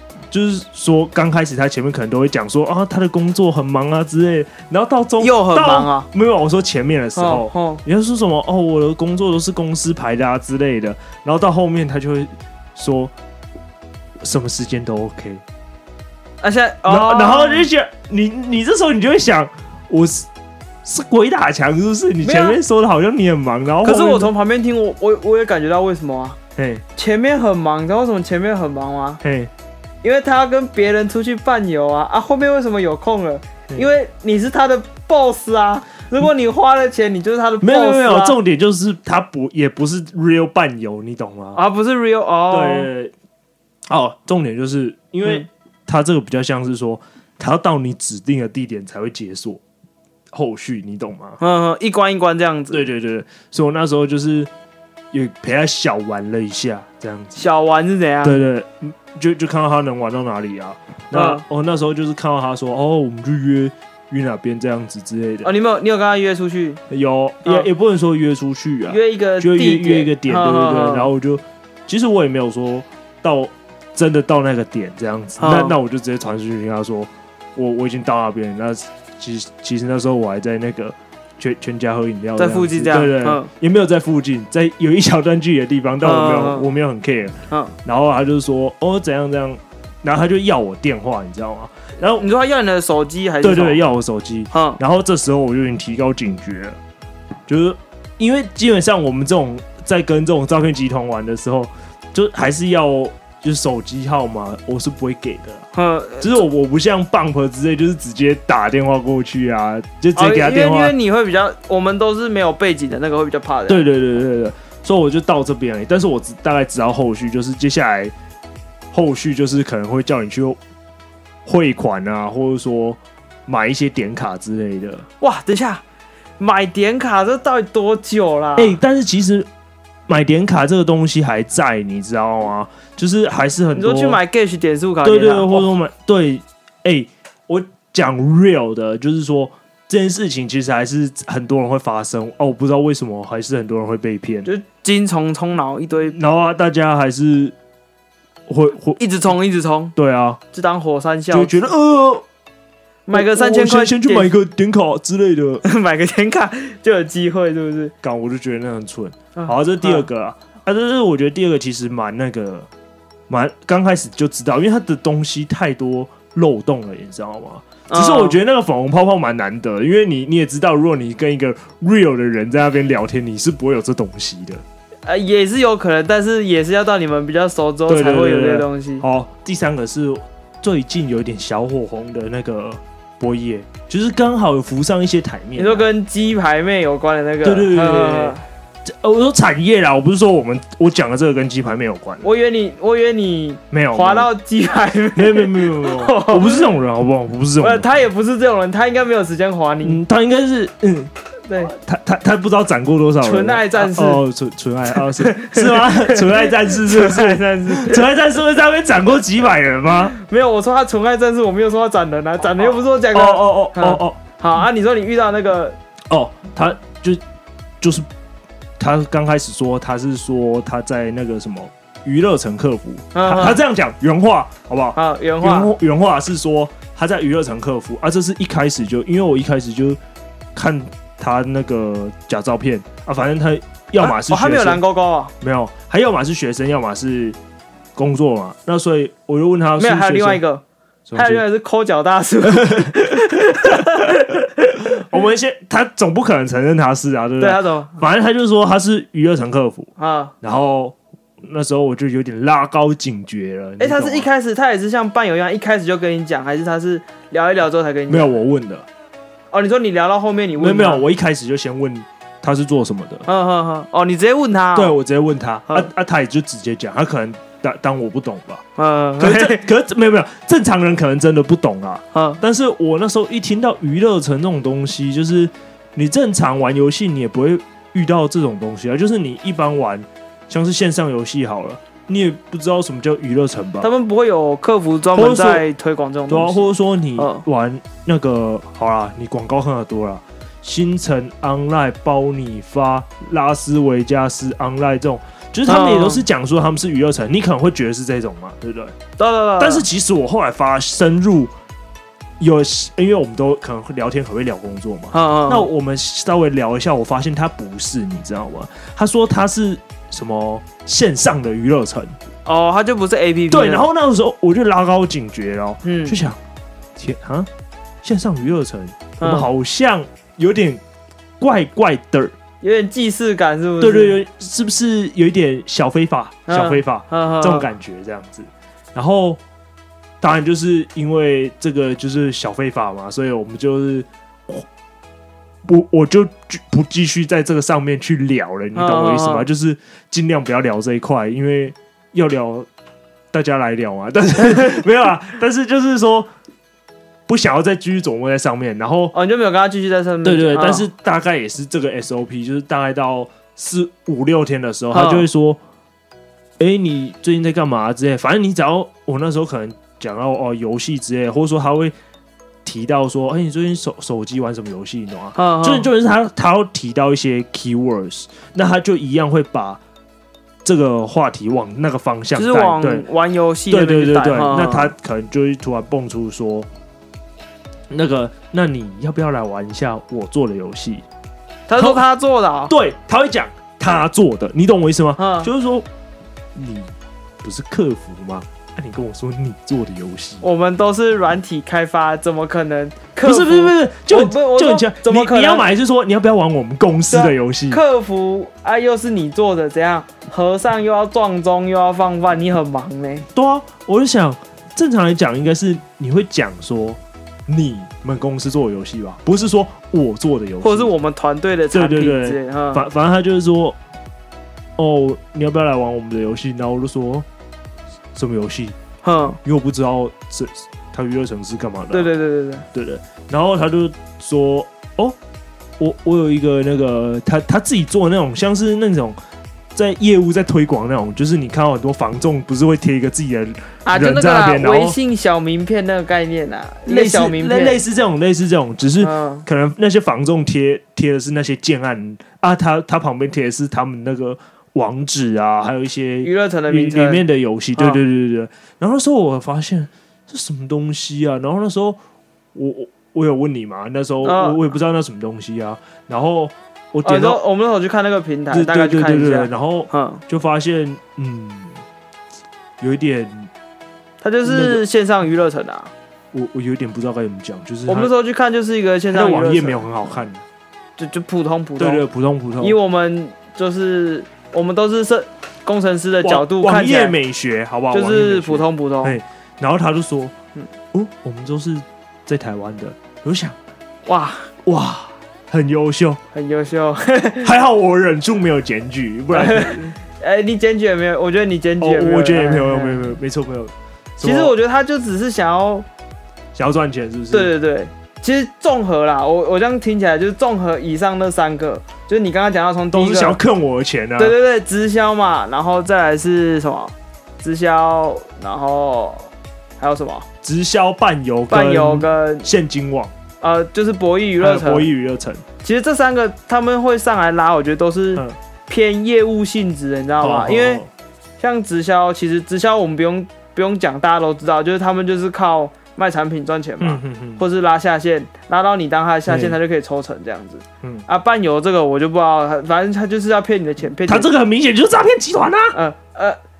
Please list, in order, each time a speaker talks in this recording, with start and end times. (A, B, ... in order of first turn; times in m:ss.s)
0:00.3-0:13.1 A
0:05.2-0:06.1 B
0:07.2-0:07.8 B
0:14.2-0:15.4 A
0:16.4-0:17.7 B
0:16.9-0:20.3 A
0:20.8-0:24.3 A
0:22.2-0:22.6 B
0:23.8-0:26.4 B
0:26.6-0:26.8 A
0:27.0-0:29.2 B
0:29.2-0:29.5 A
0:30.0-0:38.4 B
0:37.6-0:41.6 A
0:41.6-0:42.9 B
0:42.5-0:43.1 A
0:43.9-0:49.6 A
0:50.3-0:51.4 A
0:51.4-0:52.8 B
0:52.7-0:54.5 A
0:55.1-0:57.4 A
0:57.4-0:58.4 B
0:58.2-1:05.5 A
1:01.1-1:01.4 B
1:05.4-1:06.8 B
1:06.9-1:32.3 A
1:08.9-1:11.1 B
1:15.4-1:15.8 B
1:22.4-1:23.5 B
1:26.0-1:26.7 B
1:27.5-1:27.8 B
1:32.2-1:33.8 B
1:33.4-1:36.8 A
1:34.5-1:34.8 B
1:37.5-1:45.6 A
1:45.7-1:46.4 B
1:46.2-1:50.9 A
1:50.2-1:53.8 B
1:53.7-1:58.1 A
1:58.9-2:00.6 A
2:01.4-2:05.1 A
2:05.2-2:05.8 B
2:06.4-2:08.8 B
2:08.6-2:09.5 A
2:10.1-2:14.2 A
2:13.7-2:15.7 B
2:15.0-2:24.5 A
2:24.4-2:26.2 B
2:26.1-2:27.6 A
2:28.5-2:29.0 A
2:29.0-2:29.9 B
2:30.0-2:30.4 A
2:30.5-2:31.7 B
2:31.3-2:32.2 A
2:33.1-2:34.3 B
2:33.1-2:35.6 A
2:35.6-2:37.9 B
2:38.0-2:42.7 A
2:39.4-2:40.1 B
2:43.3-2:54.6 A
2:47.9-2:48.4 B
2:55.1-2:59.0 B
2:57.9-3:05.9 A
3:05.6-3:08.4 B
3:07.4-3:12.3 A
3:12.2-3:16.7 B
3:13.7-3:14.3 A
3:15.2-3:17.9 A
3:17.6-3:20.0 B
3:19.8-3:30.2 A
3:21.5-3:21.7 B
3:23.2-3:24.2 B
3:25.2-3:28.0 B
3:30.1-3:35.8 B
3:32.6-3:34.2 A
3:36.1-3:37.2 A
3:37.8-3:38.1 A
3:38.8-3:50.0 A
3:43.1-3:43.6 B
3:45.0-3:45.7 B
3:50.6-3:54.8 A
3:54.0-3:55.3 B
3:55.4-3:57.4 A
3:58.0-4:00.4 A
3:59.8-4:00.6 B
4:01.1-4:01.4 A
4:01.2-4:04.4 B
4:02.5-4:03.1 A
4:03.6-4:09.9 A
4:07.4-4:08.0 B
4:10.0-4:10.3 B
4:10.4-4:14.3 A
4:13.8-4:18.3 B
4:18.1-4:18.9 A
4:19.5-4:21.0 B
4:20.6-4:23.3 A
4:23.3-4:25.0 B
4:24.8-4:28.6 A
4:28.8-4:29.6 B
4:29.2-4:43.9 A
4:32.1-4:32.4 B
4:43.8-4:47.4 B
4:45.1-4:45.6 A
4:46.3-4:59.0 A
4:55.7-4:56.2 B
4:59.2-4:59.9 B
4:59.6-5:01.5 A
5:02.4-5:12.2 A
5:05.1-5:05.7 B
5:12.5-5:13.9 B
5:13.5-5:16.4 A
5:15.8-5:16.2 B
5:17.0-5:17.5 A
5:18.0-5:20.8 A
5:19.2-5:19.5 B
5:21.4-5:22.3 A
5:22.6-5:24.2 B
5:23.8-5:29.4 A
5:26.5-5:27.7 B
5:30.2-5:34.7 A
5:35.6-5:42.7 A
5:38.8-5:39.5 B
5:43.3-5:46.3 A
5:44.4-5:44.7 B
5:47.3-5:49.1 A
5:49.1-5:50.9 B
5:50.2-5:55.6 A
5:54.9-5:55.3 B
5:56.6-6:01.9 A
6:02.6-6:09.8 A
6:05.4-6:05.9 B
6:10.6-6:13.1 A
6:12.4-6:14.9 B
6:13.7-6:16.7 A
6:17.9-6:21.0 A
6:21.7-6:22.7 B
6:22.7-6:25.9 A
6:25.2-6:25.5 B
6:26.6-6:30.4 A
6:30.4-6:35.7 B
6:33.2-6:37.8 A
6:37.1-6:43.3 B
6:43.4-6:50.9 A
6:50.6-6:52.8 B
6:51.7-6:53.8 A
6:54.8-6:57.3 A
6:58.1-6:58.8 A
6:59.0-6:59.4 B
6:59.4-7:02.1 A
7:01.9-7:02.7 B
7:02.7-7:05.2 A
7:05.8-7:09.2 A
7:09.7-7:15.0 A
7:13.9-7:17.8 B
7:16.9-7:32.0 A
7:19.0-7:19.4 B
7:26.2-7:27.2 B
7:27.8-7:28.0 B
7:32.5-7:37.4 A
7:34.2-7:34.6 B
7:37.0-7:40.2 B
7:38.5-7:41.8 A
7:42.8-7:43.5 A
7:44.2-7:45.9 B
7:44.4-7:44.8 A
7:46.3-7:48.1 A
7:47.9-7:49.8 B
7:49.1-7:50.4 A
7:51.0-7:52.0 B
7:51.8-7:52.8 A
7:52.6-7:57.2 B
7:56.2-8:00.3 A
7:57.9-7:59.2 B
8:00.9-8:03.6 A
8:04.1-8:04.5 B
8:04.6-8:06.2 A
8:06.3-8:07.5 B
8:07.4-8:09.9 A
8:09.3-8:13.0 B
8:11.8-8:14.5 A
8:14.2-8:15.9 B
8:16.5-8:17.5 A
8:17.3-8:23.4 B
8:22.9-8:24.4 A
8:24.2-8:30.3 B
8:30.4-8:33.1 A
8:31.5-8:32.5 B
8:33.4-8:34.9 B
8:34.4-8:35.4 A
8:35.6-8:40.8 B
8:40.2-8:40.9 A
8:41.4-8:54.3 B
8:46.8-8:47.4 A
8:49.3-8:49.6 A
8:54.1-8:55.8 A
8:55.7-8:56.4 B